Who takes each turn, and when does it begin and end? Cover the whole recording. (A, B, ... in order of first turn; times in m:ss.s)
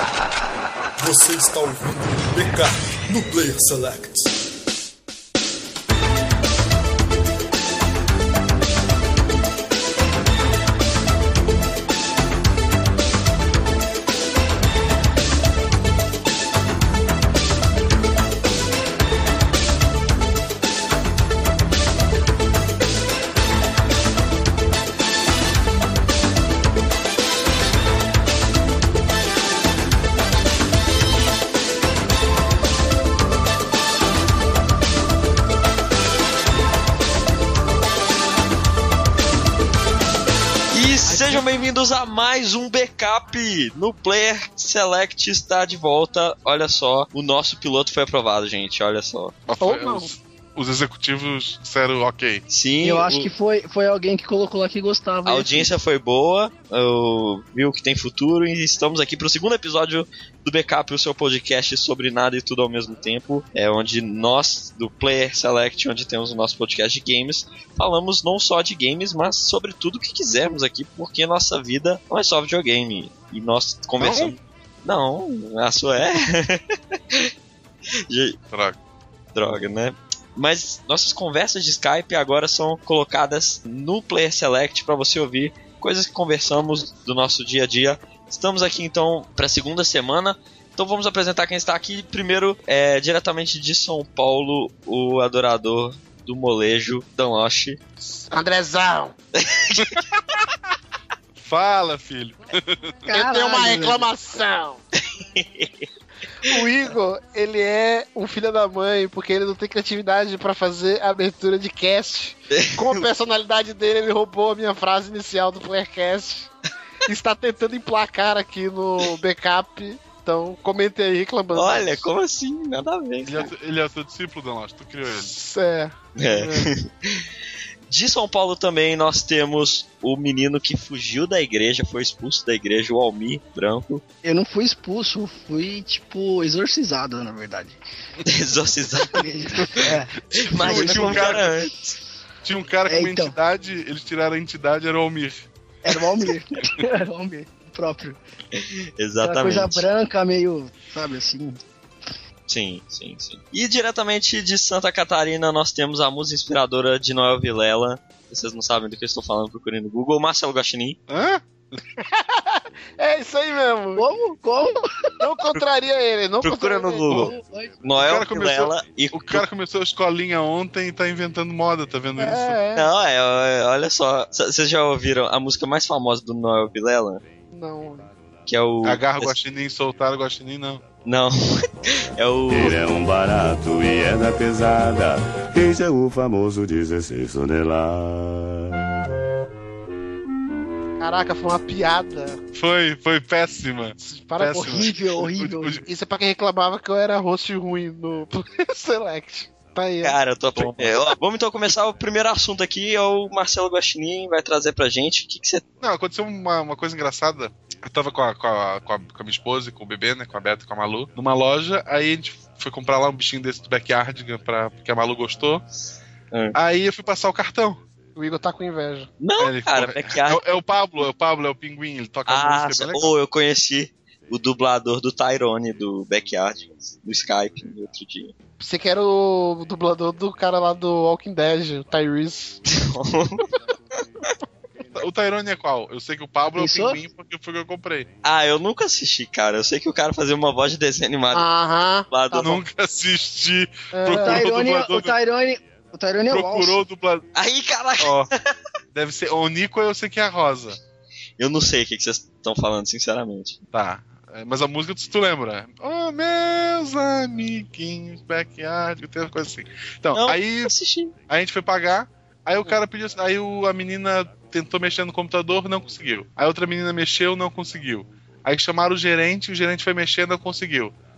0:01.0-0:04.3 A
0:40.7-0:49.4 B
0:49.4-0:52.4 C
0:49.6-0:50.1 D
0:52.5-0:53.3 B
0:52.8-0:55.7 E
0:55.2-1:17.3 B
1:14.0-1:14.3 C
1:18.1-1:18.4 B
1:18.5-1:18.8 C
1:19.3-1:37.8 B
1:38.3-1:39.2 D
1:39.4-1:40.0 B
1:39.8-1:40.0 C
1:41.4-1:42.8 C
1:43.1-1:44.1 E
1:43.1-1:44.8 D
1:45.2-1:45.9 B
1:46.4-1:56.5 D
1:52.5-1:53.0 B
1:57.0-2:02.1 D
2:01.5-2:03.5 B
2:03.2-2:05.3 C
2:05.1-2:06.7 D
2:06.2-2:07.2 B
2:07.9-2:14.0 B
2:14.2-2:17.8 E
2:18.2-2:21.9 B
2:19.1-2:20.1 E
2:20.3-2:21.5 C
2:20.6-2:21.5 E
2:22.4-2:25.5 C
2:22.9-2:23.4 E
2:25.8-2:28.2 E
2:28.5-2:29.8 B
2:29.2-2:31.6 E
2:32.5-2:41.0 B
2:41.1-2:41.4 C
2:42.0-2:44.1 D
2:44.0-2:45.2 E
2:45.2-2:47.3 D
2:46.4-2:49.4 B
2:47.1-2:47.7 E
2:48.0-2:52.6 C
2:52.2-2:52.9 D
2:52.7-2:57.2 B
2:57.5-2:58.1 D
2:58.5-2:59.3 B
2:58.8-3:00.8 C
3:01.0-3:02.8 B
3:02.5-3:08.7 F
3:11.0-3:12.4 D
3:12.5-3:15.8 C
3:14.0-3:14.9 D
3:14.7-3:15.8 E
3:15.8-3:21.1 D
3:20.0-3:25.6 B
3:25.8-3:35.6 C
3:36.3-3:36.6 B
3:36.5-3:37.8 C
3:38.2-3:39.1 D
3:39.2-3:40.4 B
3:39.4-3:43.1 C
3:42.3-3:48.3 B
3:48.6-3:52.6 D
3:52.7-3:53.5 B
3:54.9-3:58.1 C
3:56.6-3:57.0 E
3:58.2-4:01.5 B
4:01.3-4:02.6 D
4:02.1-4:02.6 B
4:02.4-4:05.1 C
4:03.9-4:04.4 D
4:04.2-4:06.8 E
4:06.3-4:07.3 C
4:07.3-4:08.2 B
4:08.0-4:08.3 C
4:08.9-4:10.8 C
4:11.4-4:13.6 B
4:13.7-4:20.7 C
4:20.1-4:21.1 B
4:21.3-4:30.9 C